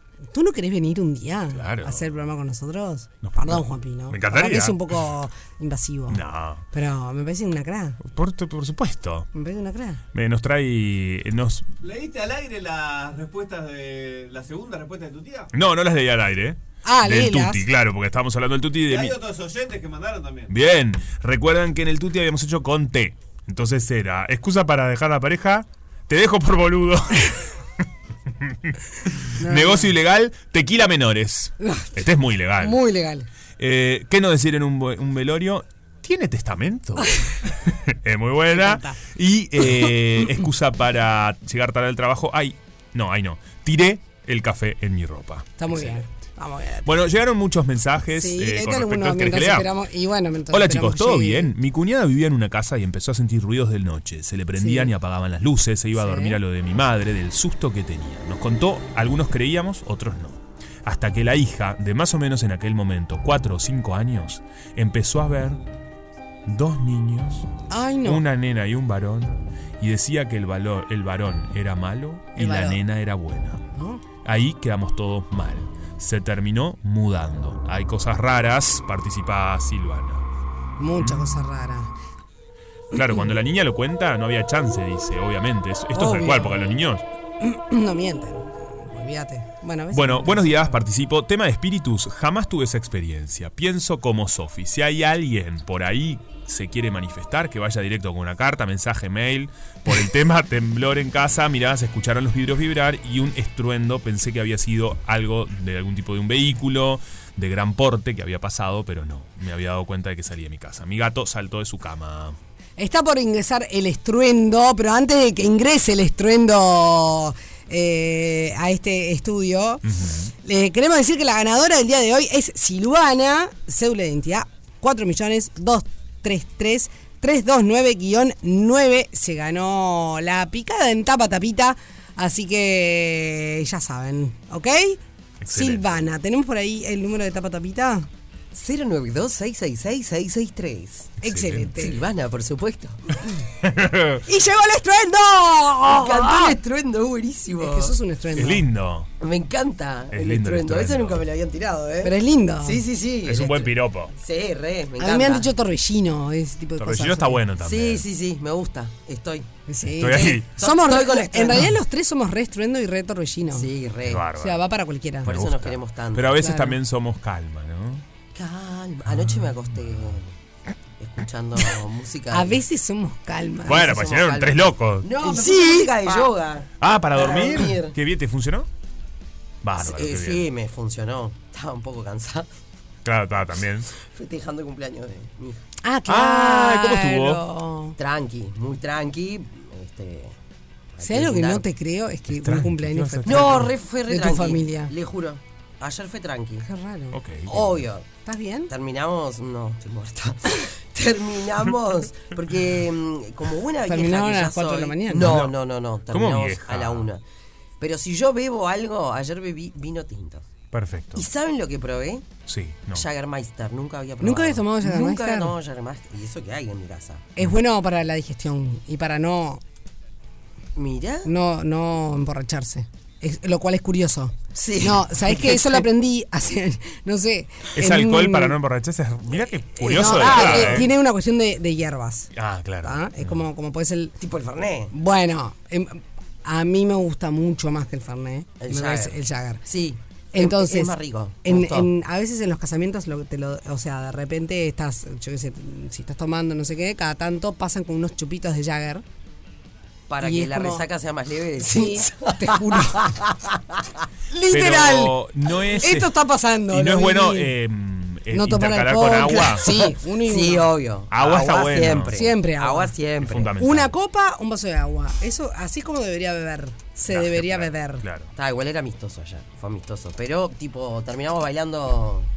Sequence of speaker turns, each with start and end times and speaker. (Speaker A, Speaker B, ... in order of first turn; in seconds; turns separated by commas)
Speaker A: 0.3-8.0, Speaker B: 1.5-2.1, Speaker B: 3.2-4.9, Speaker B: 6.1-6.6, Speaker B: 8.0-9.3, Speaker A: 9.3-10.0, Speaker B: 10.1-11.7, Speaker C: 11.8-15.5, Speaker B: 15.5-19.1, Speaker A: 16.8-17.6, Speaker C: 18.9-20.5, Speaker B: 20.5-27.5, Speaker B: 28.4-32.8, Speaker A: 29.4-29.9, Speaker A: 31.6-31.9, Speaker A: 32.6-33.3, Speaker B: 33.6-46.0, Speaker A: 38.5-39.0, Speaker A: 45.6-46.9, Speaker B: 46.8-49.7, Speaker A: 48.1-51.5, Speaker B: 50.5-65.6, Speaker A: 54.6-54.9, Speaker A: 55.9-56.4, Speaker B: 66.5-67.5, Speaker A: 67.7-68.2, Speaker B: 68.0-73.6, Speaker A: 72.3-72.8, Speaker A: 73.7-74.0, Speaker B: 74.2-80.2, Speaker A: 80.8-81.9, Speaker B: 81.0-81.4, Speaker B: 82.9-87.0, Speaker A: 83.0-83.2, Speaker A: 85.9-86.6, Speaker A: 87.4-90.8, Speaker B: 89.9-112.4, Speaker A: 112.8-119.8, Speaker B: 119.8-120.3, Speaker A: 120.4-138.1, Speaker B: 135.4-135.8, Speaker D: 138.5-141.1, Speaker B: 141.2-141.7, Speaker A: 141.2-142.0, Speaker D: 141.7-143.2, Speaker B: 143.6-144.2, Speaker A: 144.2-146.6, Speaker D: 145.9-147.9, Speaker A: 147.6-148.7, Speaker B: 148.3-149.1, Speaker D: 149.2-155.5, Speaker B: 150.1-151.2, Speaker A: 152.0-152.8, Speaker B: 153.2-154.1, Speaker A: 155.0-157.4, Speaker B: 156.8-158.0, Speaker D: 157.6-159.5, Speaker A: 159.7-163.7, Speaker B: 159.9-160.5, Speaker D: 160.0-161.7, Speaker D: 163.5-164.3, Speaker B: 164.0-164.6, Speaker A: 164.4-165.4, Speaker D: 165.2-166.4, Speaker B: 165.2-168.0, Speaker A: 166.3-166.8, Speaker D: 168.3-170.3, Speaker B: 169.1-170.2, Speaker D: 171.0-172.6, Speaker A: 172.3-174.1, Speaker B: 173.7-175.1, Speaker D: 173.8-177.9, Speaker A: 175.2-176.2, Speaker B: 176.8-178.7, Speaker B: 179.6-180.5, Speaker D: 179.8-182.5, Speaker B: 183.0-183.9, Speaker D: 183.9-185.6, Speaker A: 185.8-187.9, Speaker B: 186.1-187.4, Speaker D: 188.0-190.3, Speaker D: 190.9-191.7, Speaker A: 191.0-194.9, Speaker B: 192.3-193.7, Speaker D: 193.2-196.7, Speaker A: 196.6-197.2, Speaker B: 197.1-197.8, Speaker D: 197.4-198.1, Speaker A: 198.2-198.7, Speaker D: 198.7-207.2, Speaker A: 203.8-205.4, Speaker B: 205.2-205.6, Speaker B: 206.1-207.1, Speaker D: 207.8-210.5, Speaker B: 210.7-211.2, Speaker D: 211.1-217.3, Speaker B: 212.5-213.1, Speaker A: 214.2-215.6, Speaker A: 217.4-219.6, Speaker D: 220.8-221.3, Speaker A: 221.2-228.6, Speaker D: 224.5-225.8, Speaker B: 227.8-230.9, Speaker A: 229.8-232.3, Speaker D: 230.1-230.8, Speaker B: 232.3-233.4, Speaker A: 232.8-234.1, Speaker D: 234.2-234.9, Speaker A: 234.9-239.6, Speaker D: 238.6-241.9, Speaker A: 240.3-249.0, Speaker D: 250.1-253.8, Speaker A: 250.2-250.8, Speaker A: 251.6-253.2, Speaker A: 254.3-255.2, Speaker B: 254.5-256.1, Speaker A: 255.8-257.5, Speaker B: 256.7-259.7, Speaker A: 258.3-260.7, Speaker D: 259.5-263.6, Speaker B: 261.1-262.2, Speaker A: 262.1-262.9, Speaker B: 263.2-263.9, Speaker A: 263.6-268.0, Speaker B: 267.1-268.3, Speaker D: 268.3-272.3